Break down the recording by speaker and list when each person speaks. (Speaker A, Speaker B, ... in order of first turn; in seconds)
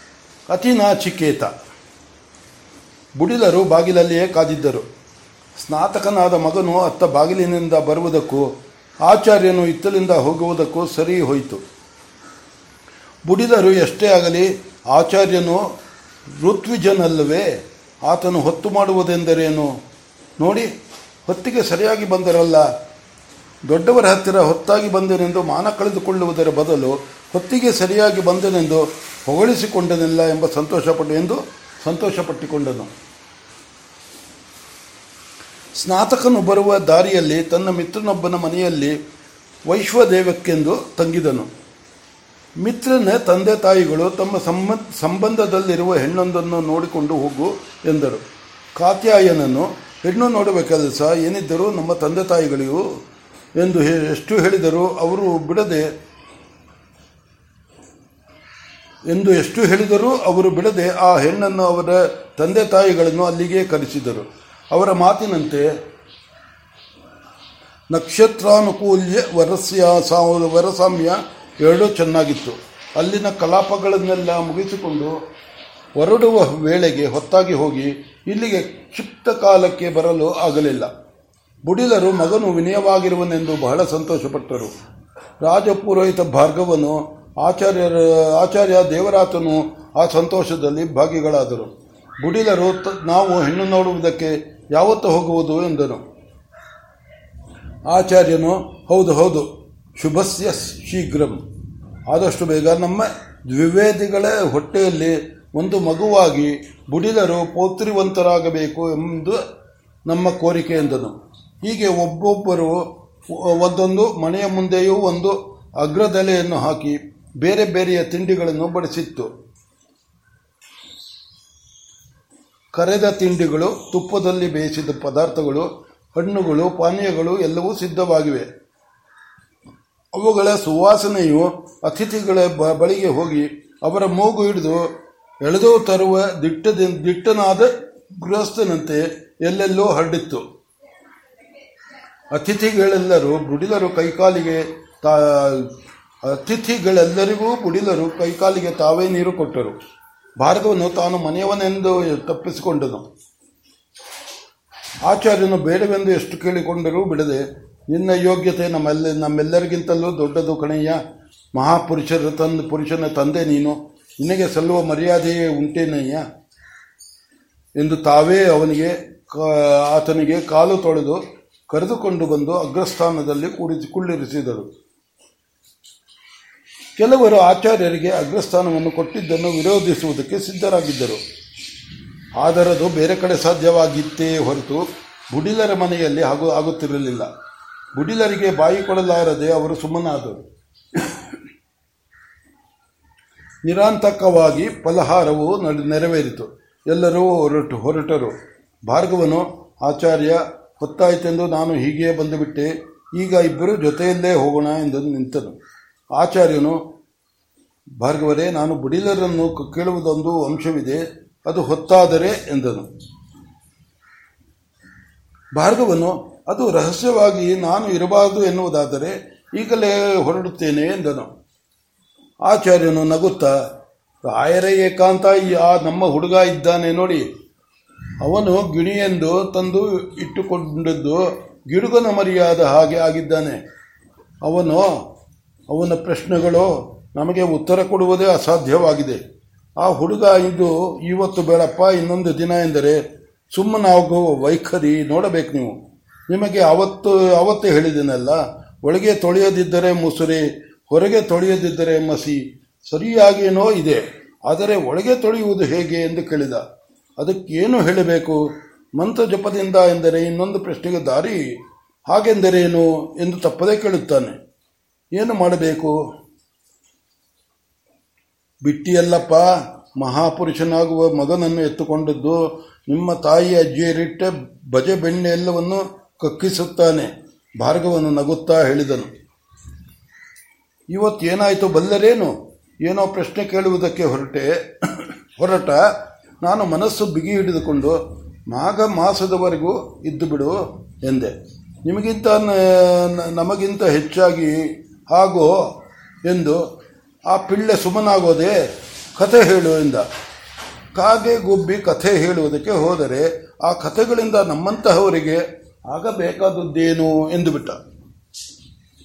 Speaker A: 0.5-1.5, 3.2-4.8, 5.6-8.5, 9.0-11.6, 13.3-15.6, 16.3-17.5, 18.0-19.7, 20.4-20.7, 21.2-22.7, 23.6-32.9, 35.8-39.0, 39.7-41.5, 42.6-48.2, 48.8-52.8, 53.6-55.9, 59.1-65.7, 67.9-75.1, 76.0-80.9, 81.6-84.7, 85.4-96.0, 97.9-101.4, 102.1-109.4, 110.0-119.3, 122.7-128.5, 130.1-134.9, 135.4-140.4, 142.3-145.7, 146.2-149.8, 150.4-153.1, 155.0-161.0, 161.5-166.2, 167.8-174.7, 177.0-181.2, 182.4-187.3, 187.9-190.4, 190.9-191.2, 193.6-198.3, 198.9-205.6, 206.1-206.8, 208.0-212.9, 215.6-221.3, 222.4-223.6, 224.2-227.2, 228.2-233.6, 234.4-235.0, 235.7-239.2, 239.8-245.8, 246.3-256.6, 257.2-258.4, 259.0-261.6, 262.1-264.4, 265.1-265.9, 268.6-279.1, 280.9-282.3, 282.8-288.0, 288.5-291.3, 291.8-295.7, 296.2-296.6, 297.3-298.6, 299.2-300.0, 300.9-307.8